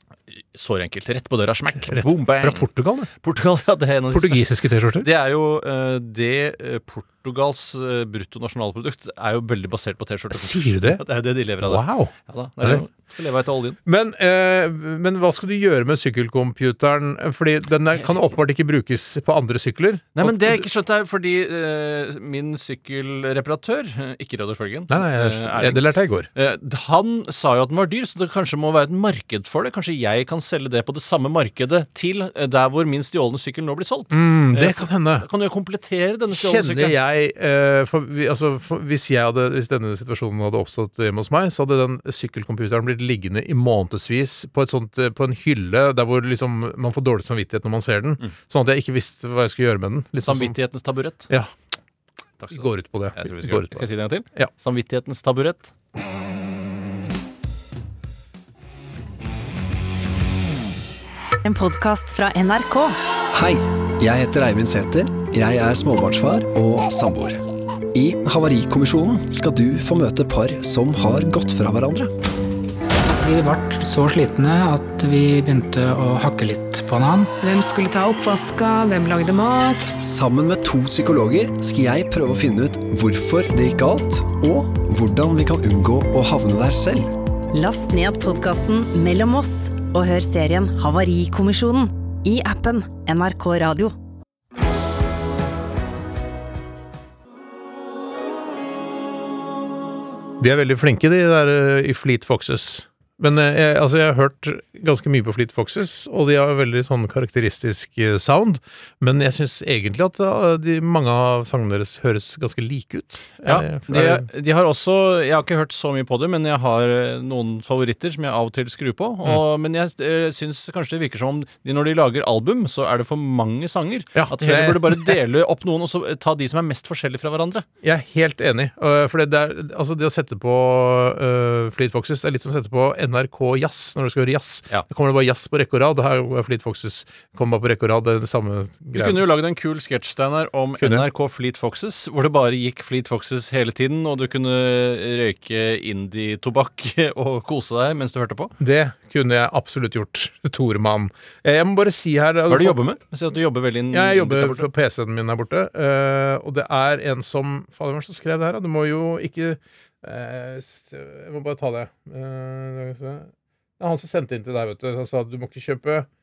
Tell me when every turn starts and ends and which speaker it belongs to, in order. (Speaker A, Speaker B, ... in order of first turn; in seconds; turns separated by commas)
Speaker A: 0.5-2.7, Speaker B: 1.8-3.1, Speaker A: 3.2-4.5, Speaker B: 4.1-5.1, Speaker A: 5.0-13.8, Speaker B: 10.3-11.0, Speaker B: 11.6-12.8, Speaker B: 13.8-20.7, Speaker A: 20.1-25.8, Speaker B: 24.9-26.3, Speaker A: 26.4-37.0, Speaker B: 34.1-35.3, Speaker B: 36.3-50.6, Speaker A: 50.2-51.3, Speaker A: 52.4-55.7, Speaker B: 52.5-54.5, Speaker C: 61.5-63.0, Speaker D: 63.3-67.4, Speaker D: 67.9-72.1, Speaker E: 73.2-77.3, Speaker F: 77.6-79.8, Speaker D: 80.0-87.1, Speaker C: 87.5-93.9, Speaker B: 100.4-114.3, Speaker A: 113.5-127.7, Speaker B: 124.2-125.2, Speaker B: 127.8-139.2, Speaker A: 138.9-148.5, Speaker B: 140.8-141.1, Speaker B: 148.6-152.8, Speaker A: 152.5-154.7, Speaker B: 153.9-166.1